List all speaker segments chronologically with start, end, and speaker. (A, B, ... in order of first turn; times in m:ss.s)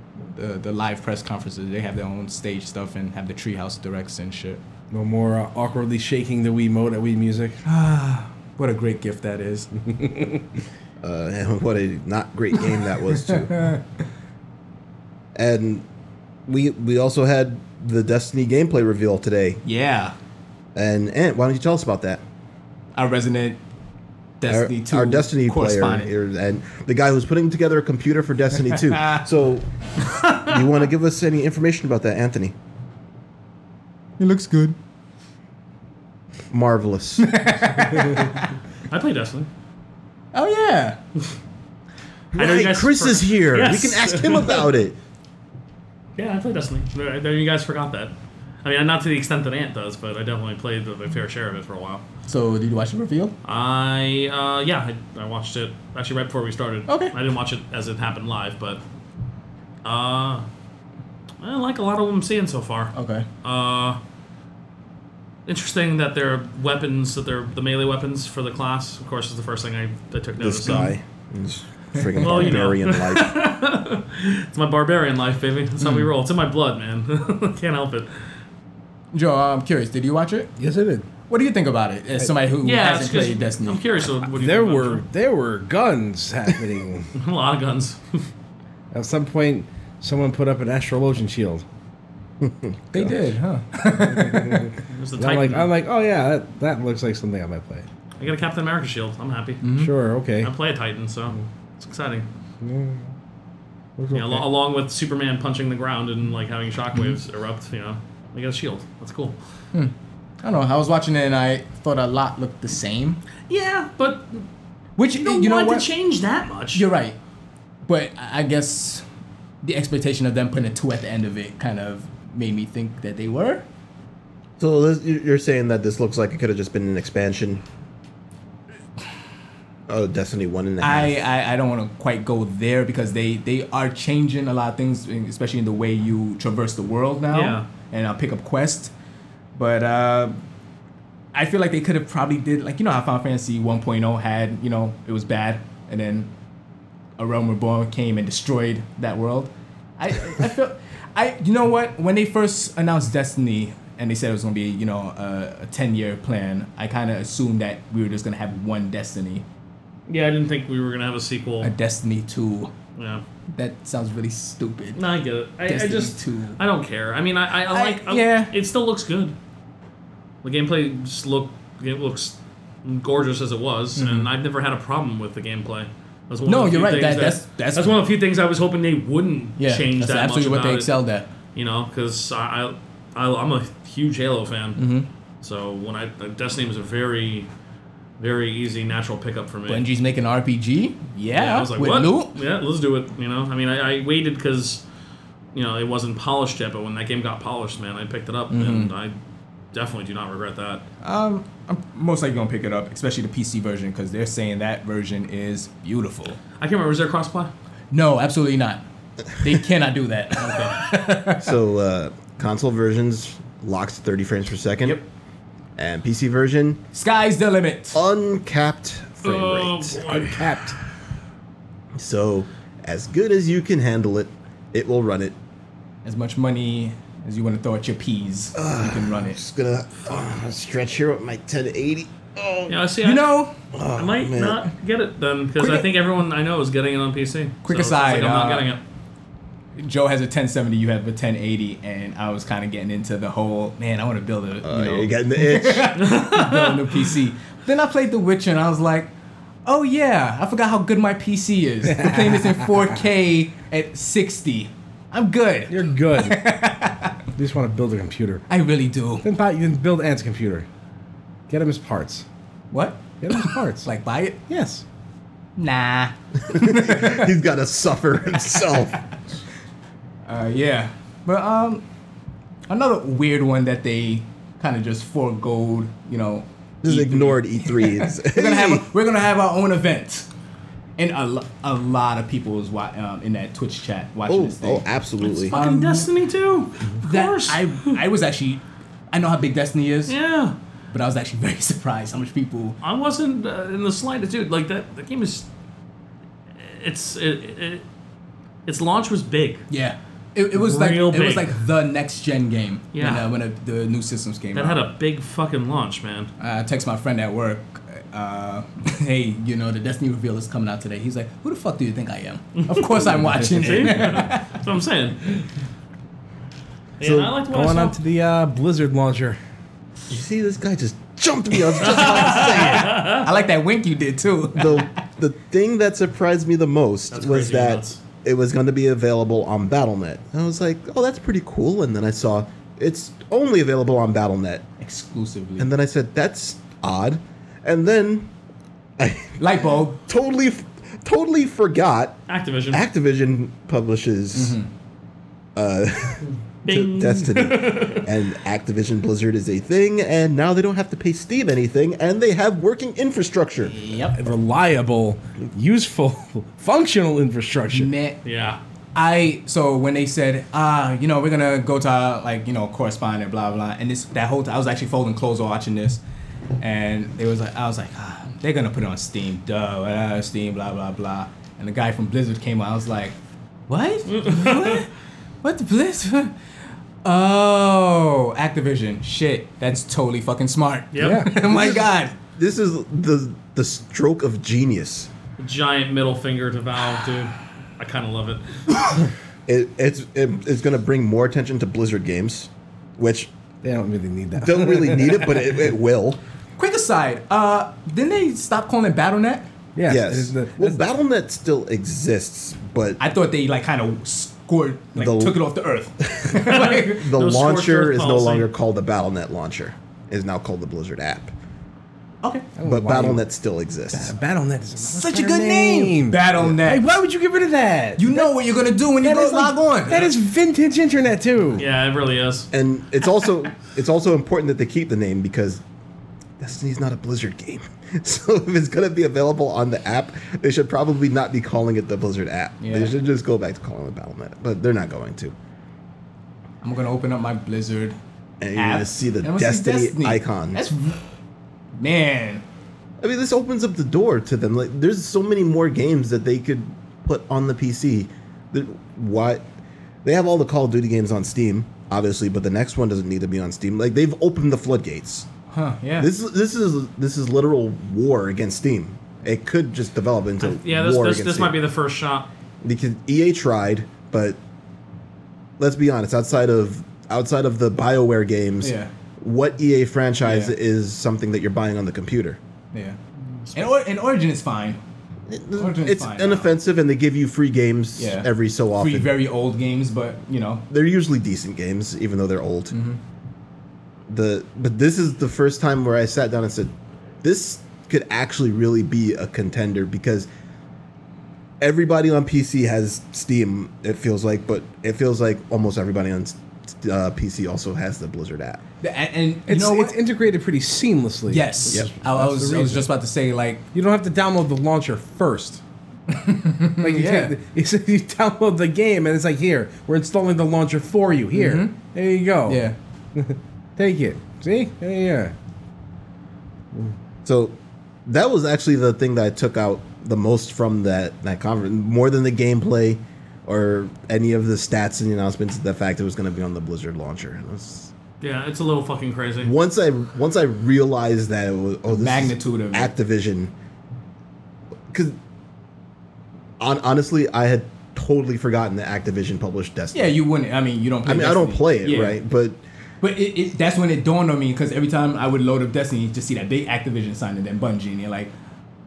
0:00.2-0:04.6 A
0:04.9-0:07.6 B
0:07.6-0:09.7 A
0:09.9-0:10.4 B
0:11.0-0:13.7 C
0:15.3-0:15.8 C
0:16.5-0:19.6 C
0:19.6-0:20.1 A
0:20.7-0:22.2 C
0:23.0-0:23.6 A
0:24.4-0:26.1 A
0:24.4-0:32.5 C
0:30.1-0:30.4 D
0:34.2-0:34.8 A
0:36.5-0:37.4 C
0:37.2-0:38.4 A
0:38.9-0:39.5 D
0:40.3-0:41.0 A
0:42.3-0:45.0 C
0:42.4-0:44.7 D
0:46.2-0:48.1 D
0:48.6-0:52.0 D
0:52.3-0:53.3 A
0:53.4-0:58.8 D
0:56.9-0:57.1 A
0:59.8-1:00.4 D
1:01.4-1:04.0 D
1:02.9-1:03.2 A
1:05.5-1:10.9 D
1:10.4-1:13.3 C
1:12.1-1:12.7 A
1:12.2-1:18.1 D
1:15.8-1:16.1 A
1:19.1-1:20.5 A
1:20.6-1:21.1 B
1:21.3-1:23.8 A
1:22.6-1:25.0 D
1:24.3-1:27.1 B
1:27.1-1:28.2 D
1:28.9-1:31.6 B
1:32.4-1:33.1 C
1:32.9-1:34.7 A
1:34.0-1:37.8 B
1:34.9-1:35.7 D
1:38.2-1:39.6 D
1:39.6-1:39.9 A
1:39.8-1:40.5 B
1:40.4-1:42.2 D
1:42.6-1:43.1 B
1:44.0-1:44.4 B
1:44.1-1:49.4 D
1:49.7-1:53.2 A
1:53.5-1:54.4 D
1:55.0-1:55.9 A
1:55.2-1:56.8 D
1:56.7-1:57.2 A
1:57.8-1:59.0 A
1:59.6-2:03.6 A
2:04.6-2:07.6 C
2:09.9-2:11.2 C
2:10.8-2:18.9 A
2:17.3-2:17.6 D
2:19.5-2:20.4 A
2:21.3-2:26.3 A
2:27.2-2:39.4 A
2:40.1-2:41.7 D
2:41.6-2:42.7 A
2:43.0-2:43.2 D
2:43.5-2:45.0 A
2:45.0-2:49.3 D
2:45.6-2:46.6 A
2:47.6-2:48.5 A
2:50.4-3:00.9 D
2:54.0-2:54.3 A
2:56.4-2:58.0 A
2:59.6-3:01.3 A
3:01.5-3:04.8 D
3:04.8-3:05.1 A
3:05.4-3:07.5 D
3:08.2-3:09.8 D
3:09.7-3:12.4 A
3:11.3-3:14.8 D
3:15.5-3:19.2 D
3:18.5-3:18.9 A
3:19.7-3:20.8 D
3:21.0-3:26.4 A
3:26.6-3:27.5 D
3:27.9-3:28.8 A
3:29.3-3:31.5 A
3:30.4-3:30.7 D
3:31.3-3:35.0 C
3:35.8-3:36.8 C
3:36.9-3:38.0 A
3:37.9-3:40.0 C
3:39.2-3:40.6 D
3:40.3-3:40.6 B
3:42.0-3:45.3 C
3:46.0-3:49.4 A
3:48.5-3:52.7 C
3:52.7-3:53.2 D
3:53.0-3:53.5 A
3:53.7-3:54.6 C
3:53.9-3:58.8 D
3:55.6-3:55.8 A
3:57.6-3:58.7 A
3:59.8-4:09.1 A
4:04.6-4:06.0 C
4:05.9-4:07.1 D
4:09.6-4:17.2 A
4:12.0-4:12.4 B
4:15.7-4:16.4 B
4:17.3-4:18.4 B
4:18.5-4:19.2 A
4:19.2-4:20.6 B
4:21.5-4:22.2 B
4:22.7-4:24.4 A
4:23.2-4:23.8 B
4:24.5-4:24.8 B
4:25.6-4:27.3 A
4:26.5-4:29.2 C
4:30.2-4:31.8 A
4:32.7-4:40.3 A
4:36.8-4:38.9 C
4:41.0-4:46.1 A
4:44.3-4:45.6 C
4:45.5-4:48.0 D
4:47.0-4:50.2 A
4:50.1-4:50.6 D
4:50.9-4:52.8 A
4:52.8-4:55.5 D
4:56.6-4:57.8 D
4:58.6-4:59.7 D
4:59.7-5:04.8 A
5:00.5-5:01.5 D
5:02.9-5:03.2 D
5:04.5-5:06.3 D
5:06.4-5:14.5 A
5:12.6-5:12.9 D
5:13.0-5:14.1 B
5:13.5-5:15.4 D
5:17.0-5:18.0 D
5:17.0-5:17.3 C
5:17.5-5:19.4 B
5:20.1-5:23.0 C
5:21.8-5:24.9 A
5:21.9-5:23.3 D
5:24.5-5:34.6 C
5:27.1-5:28.0 D
5:34.8-5:35.7 A
5:35.6-5:38.3 C
5:39.0-5:42.2 C
5:39.4-5:40.0 A
5:42.3-5:42.8 D
5:42.7-5:44.6 C
5:44.3-5:44.7 A
5:45.6-5:53.7 C
5:46.6-5:48.1 D
5:53.6-5:54.2 A
5:54.1-5:57.9 B
5:57.7-5:58.2 A
5:58.2-5:58.6 D
5:58.9-6:06.0 A
6:06.6-6:13.1 A
6:13.7-6:14.9 A
6:14.1-6:14.8 D
6:15.4-6:16.3 A
6:17.0-6:22.1 A
6:20.9-6:21.3 D
6:21.0-6:21.3 B
6:21.4-6:25.1 C
6:25.4-6:28.4 D
6:29.5-6:33.3 C
6:33.6-6:35.5 B
6:34.4-6:36.2 C
6:36.6-6:39.4 A
6:39.8-6:40.8 B
6:39.9-6:43.0 C
6:43.0-6:47.1 A
6:45.0-6:45.3 C
6:46.1-6:51.3 C
6:46.4-6:48.5 D
6:52.2-6:52.5 A
6:52.6-6:53.2 B
6:52.6-6:54.1 C
6:53.9-6:58.3 B
6:54.8-6:56.9 A
6:58.0-7:00.1 A
6:59.0-7:01.6 B
7:01.6-7:02.5 D
7:02.5-7:05.6 C
7:06.4-7:15.3 C
7:12.6-7:12.9 A
7:16.6-7:18.0 A
7:18.4-7:20.6 C
7:18.5-7:21.0 A
7:21.8-7:22.4 A
7:23.0-7:29.4 C
7:30.0-7:35.3 C
7:35.5-7:36.1 A
7:36.0-7:41.6 C
7:40.4-7:42.3 D
7:42.6-7:44.4 C
7:45.6-7:52.4 C
7:48.6-7:48.9 A
7:50.2-7:50.5 A
7:52.7-7:53.0 A
7:53.5-7:54.8 A
7:55.3-7:59.1 C
7:55.6-7:56.5 A
7:58.0-8:00.6 A
8:00.7-8:02.7 C
8:02.7-8:03.0 A
8:04.1-8:10.3 C
8:11.6-8:18.6 C
8:18.8-8:20.0 A
8:19.5-8:22.9 B
8:21.3-8:23.6 A
8:23.7-8:25.6 B
8:26.1-8:27.3 A
8:26.8-8:32.6 B
8:31.3-8:31.8 A
8:32.5-8:32.8 A
8:33.1-8:35.3 B
8:37.2-8:47.9 C
8:48.2-8:49.5 D
8:49.4-8:53.5 C
8:51.9-8:52.9 A
8:54.9-8:55.2 C
8:56.6-9:00.2 C
8:59.9-9:02.2 A
9:01.0-9:02.6 C
9:03.0-9:08.3 A